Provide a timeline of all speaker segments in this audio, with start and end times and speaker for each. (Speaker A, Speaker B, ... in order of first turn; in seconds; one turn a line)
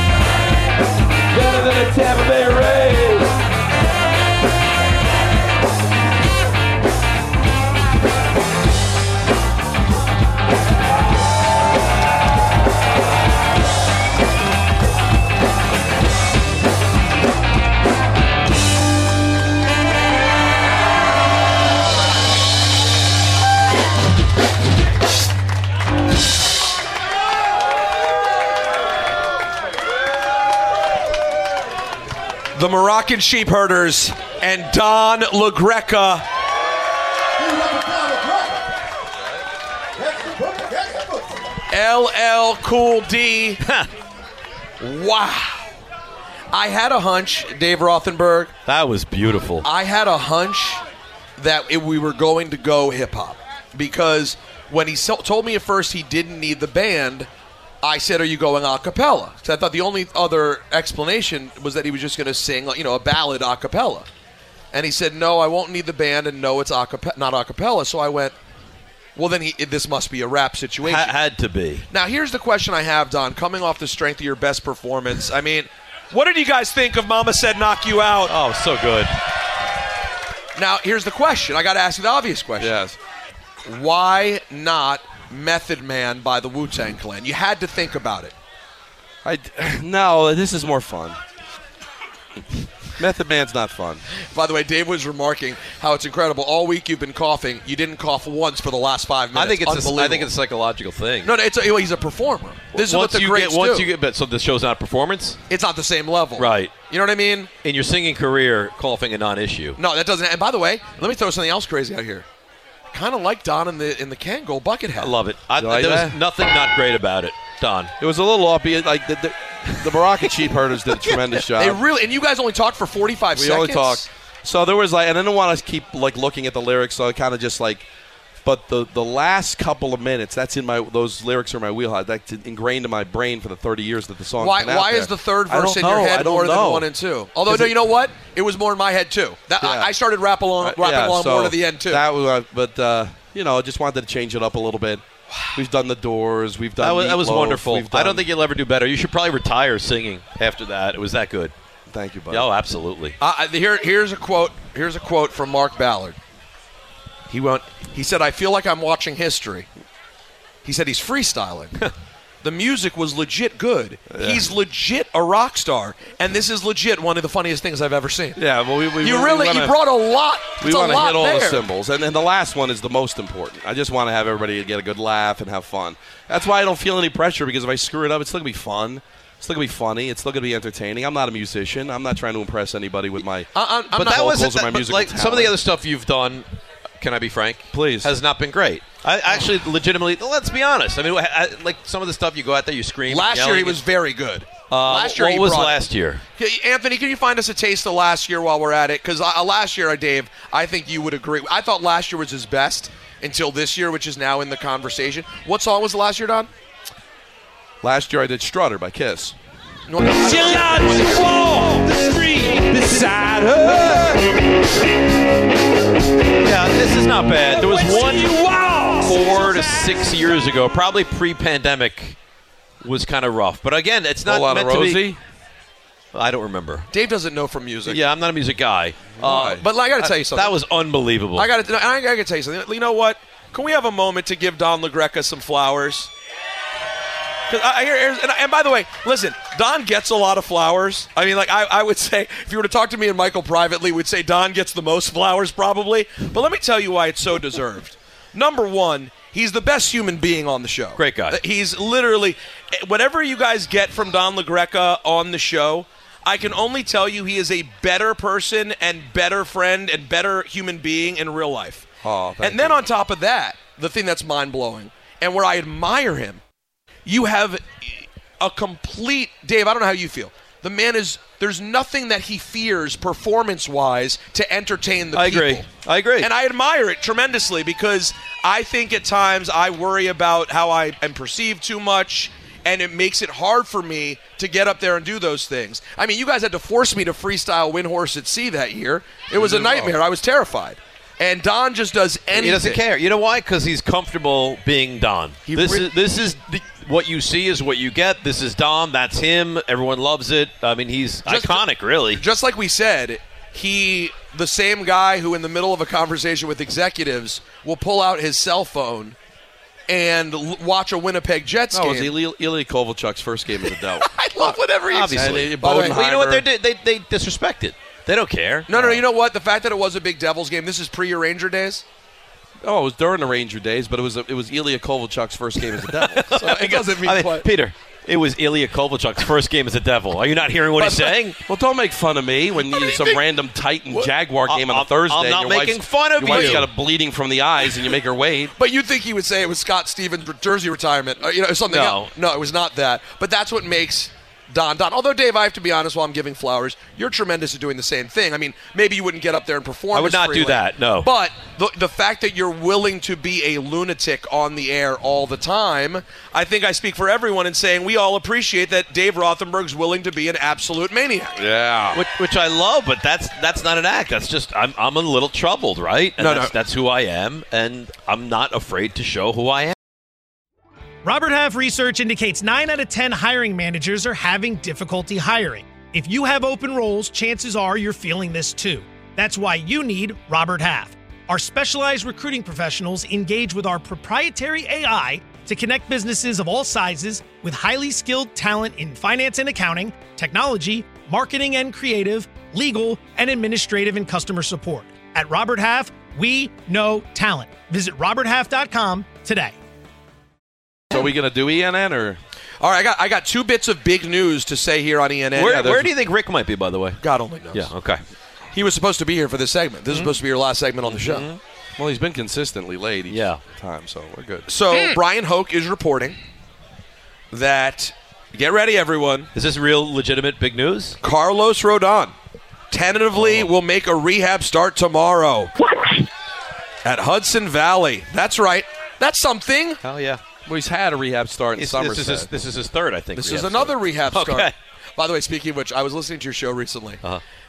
Speaker A: 1.3-3.3
Speaker B: 32.5-36.3
Speaker B: 41.7-43.6
Speaker C: 43.6-43.9
Speaker B: 44.8-45.7
Speaker B: 46.5-48.5
Speaker C: 48.7-49.7
Speaker B: 49.6-50.8
Speaker B: 51.4-57.3
Speaker B: 57.8-64.1
Speaker B: 64.7-68.3
Speaker B: 69.2-71.1
Speaker C: 70.8-71.9
Speaker B: 71.9-78.3
Speaker C: 78.3-79.1
Speaker B: 80.6-82.8
Speaker D: 82.6-83.0
Speaker B: 83.7-88.3
Speaker D: 89.2-91.2
Speaker D: 93.0-94.0
Speaker B: 94.3-100.3
Speaker C: 99.3-101.3
Speaker B: 101.2-103.9
Speaker C: 102.8-105.4
Speaker B: 105.5-107.5
Speaker C: 106.4-106.7
Speaker C: 107.6-109.8
Speaker B: 109.8-112.3
Speaker B: 112.9-115.1
Speaker C: 115.0-117.9
Speaker D: 115.6-116.2
Speaker D: 118.0-121.8
Speaker C: 120.9-121.3
Speaker B: 121.6-124.1
Speaker D: 123.3-127.9
Speaker D: 128.4-136.9
Speaker B: 134.4-142.0
Speaker D: 137.5-137.8
Speaker D: 139.6-139.9
Speaker D: 140.6-148.3
Speaker C: 146.8-151.5
Speaker D: 151.9-152.5
Speaker C: 152.3-153.2
Speaker B: 153.2-156.2
Speaker B: 157.3-159.7
Speaker B: 160.7-161.9
Speaker B: 162.4-168.4
Speaker D: 164.1-164.5
Speaker D: 168.4-169.8
Speaker B: 169.0-171.6
Speaker D: 170.6-183.5
Speaker B: 183.5-184.3
Speaker C: 183.9-186.5
Speaker D: 184.0-185.5
Speaker C: 187.0-193.8
Speaker D: 187.7-188.1
Speaker B: 193.1-195.8
Speaker C: 194.7-196.2
Speaker B: 196.4-206.5
Speaker D: 207.8-209.4
Speaker B: 209.9-211.3
Speaker A: 210.2-214.4
Speaker C: 216.4-218.3
Speaker A: 217.6-219.2
Speaker C: 219.0-222.2
Speaker C: 222.8-225.1
Speaker D: 224.3-225.2
Speaker C: 226.1-226.9
Speaker B: 226.9-228.0
Speaker C: 227.9-231.5
Speaker B: 229.2-230.6
Speaker D: 229.2-229.6
Speaker B: 231.3-236.1
Speaker B: 237.5-261.9
Speaker C: 251.0-251.4
Speaker D: 262.0-262.9
Speaker B: 262.4-266.4
Speaker B: 267.1-275.7
Speaker C: 275.1-276.3
Speaker B: 276.2-292.8
Speaker D: 289.3-290.0
Speaker C: 292.4-302.2
Speaker B: 295.5-295.9
Speaker B: 301.3-309.2
Speaker B: 309.9-312.1
Speaker D: 311.7-314.1
Speaker B: 314.0-316.0
Speaker C: 314.9-318.9
Speaker D: 315.1-316.4
Speaker B: 318.7-321.8
Speaker D: 322.6-326.3
Speaker C: 325.9-331.4
Speaker B: 326.3-327.5
Speaker B: 330.8-331.2
Speaker D: 331.5-338.5
Speaker C: 332.8-333.2
Speaker C: 333.9-336.7
Speaker B: 336.3-336.6
Speaker B: 338.6-361.4
Speaker C: 341.7-342.1
Speaker C: 349.9-351.1
Speaker D: 361.4-362.0
Speaker C: 361.9-369.8
Speaker B: 366.2-366.5
Speaker E: 371.0-399.6
Speaker D: 400.9-402.2
Speaker B: 402.6-405.8
Speaker C: 405.4-407.0
Speaker B: 407.0-407.7
Speaker C: 407.5-408.0
Speaker B: 408.5-411.3
Speaker C: 409.9-410.1
Speaker C: 410.8-411.4
Speaker D: 411.8-414.5
Speaker C: 413.1-413.4
Speaker B: 414.5-416.2
Speaker B: 417.3-419.3
Speaker C: 419.4-421.0
Speaker B: 421.0-422.1
Speaker B: 422.7-425.5
Speaker C: 423.2-423.5
Speaker B: 426.8-429.8
Speaker C: 429.8-430.2
Speaker D: 430.5-432.3
Speaker C: 431.6-434.5
Speaker B: 433.2-437.0